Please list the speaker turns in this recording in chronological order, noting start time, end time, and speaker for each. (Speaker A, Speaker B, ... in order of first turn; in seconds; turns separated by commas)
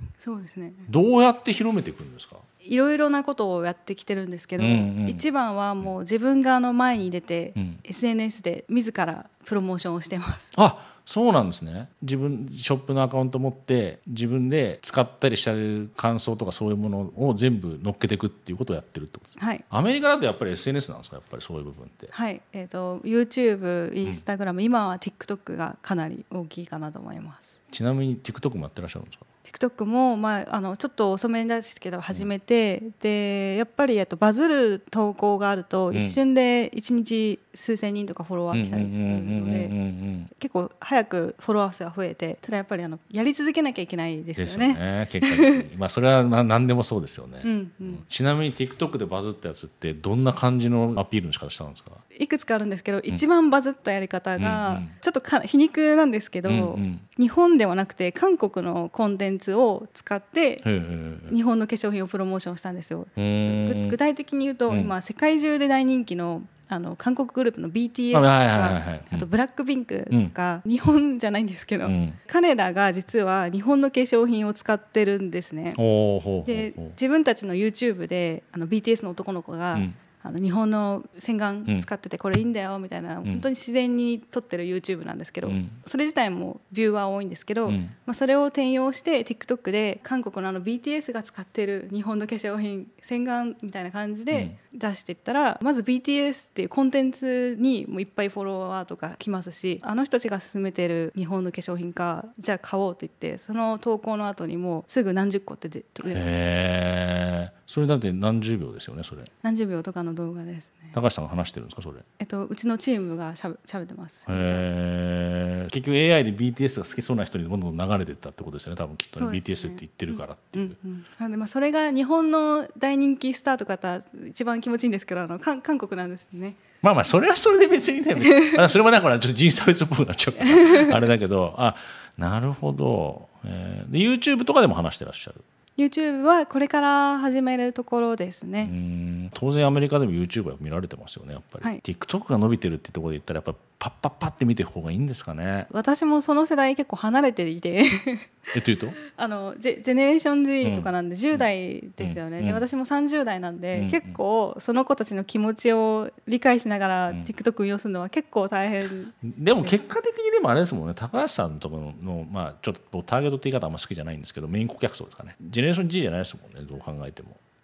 Speaker A: 0.2-0.9, Speaker B: 0.9-2.4, Speaker A: 2.6-10.5, Speaker B: 4.6-5.2, Speaker B: 7.5-7.8, Speaker B: 10.5-22.1, Speaker A: 19.4-19.6, Speaker A: 22.1-27.6, Speaker B: 27.7-29.2, Speaker A: 29.4-39.8, Speaker B: 35.9-36.2, Speaker B: 38.5-40.3, Speaker A: 40.3-45.6, Speaker B: 44.4-52.0, Speaker A: 47.4-48.0, Speaker A: 52.1-60.6, Speaker B: 54.4-54.9, Speaker B: 56.4-57.0, Speaker B: 60.6-61.4, Speaker A: 61.3-75.8, Speaker B: 63.2-64.0, Speaker B: 68.1-69.3, Speaker B: 71.8-72.2, Speaker B: 75.8-77.0, Speaker A: 76.5-106.4, Speaker B: 85.4-85.8, Speaker B: 87.7-87.9, Speaker B: 106.1-109.3, Speaker A: 109.4-110.9, Speaker B: 110.9-112.0, Speaker A: 112.2-114.6, Speaker B: 114.3-120.8, Speaker A: 119.1-126.6, Speaker B: 126.8-135.4, Speaker A: 128.3-128.6, Speaker A: 130.4-130.9, Speaker A: 135.8-138.7, Speaker B: 138.6-145.7, Speaker A: 145.7-148.5, Speaker B: 148.5-149.0, Speaker A: 149.0-159.8, Speaker B: 150.6-151.4, Speaker B: 152.0-152.6, Speaker B: 153.7-154.2, Speaker B: 159.2-167.4